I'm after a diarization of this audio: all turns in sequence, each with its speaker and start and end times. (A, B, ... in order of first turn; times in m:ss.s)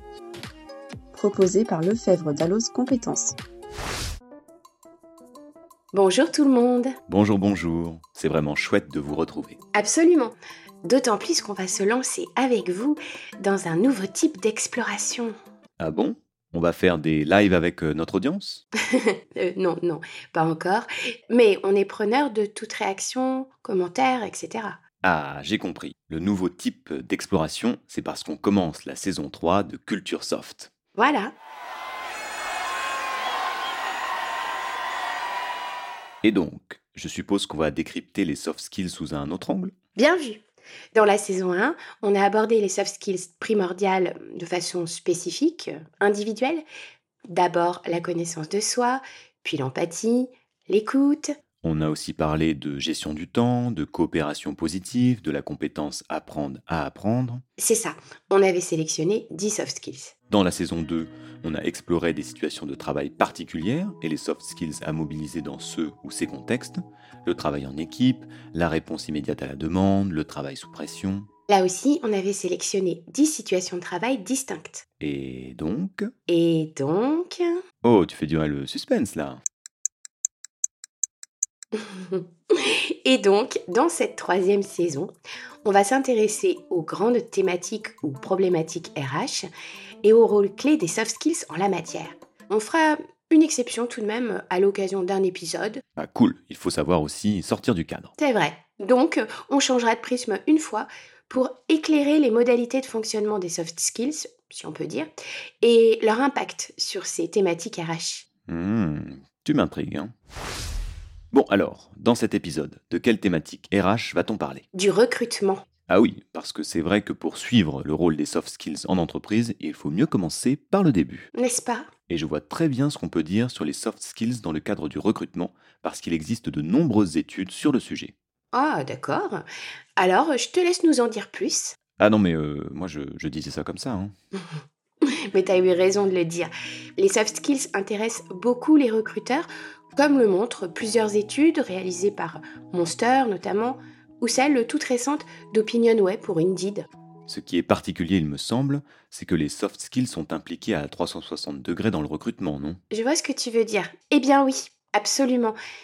0:01.1-0:03.4 A
0:05.9-0:06.9 B
0:07.1-0:09.6 C
0:09.7-0:15.3 B
0:15.8-0:18.6 C
0:18.9-0:24.8 B
0:25.0-0:30.7 C
0:31.0-0:31.3 B
0:36.2-0:39.7 C
0:40.0-0:40.4 B
0:40.9-0:46.6 B
0:47.3-0:51.3 B
0:51.6-0:57.4 C
0:57.6-1:00.1 B
1:00.3-1:11.3 C
1:11.5-1:14.8 B
1:15.0-1:16.1 C
1:16.3-1:17.6 B
1:17.8-1:19.4 C
1:21.8-1:25.1 B
1:25.6-1:29.5 B
1:30.0-1:35.8 B
1:36.0-1:38.1 C
1:38.2-1:45.1 B
1:45.6-1:48.3 B
1:48.5-1:50.1 C
1:51.3-1:54.6 C
1:54.7-1:55.6 B
1:55.9-2:01.3 C
2:01.3-2:01.9 B
2:02.1-2:08.1 C
2:08.5-2:09.4 B
2:10.0-2:11.8 B
2:12.0-2:14.1 C
2:15.3-2:26.9 B
2:27.3-2:32.8 C
2:32.9-2:35.6 B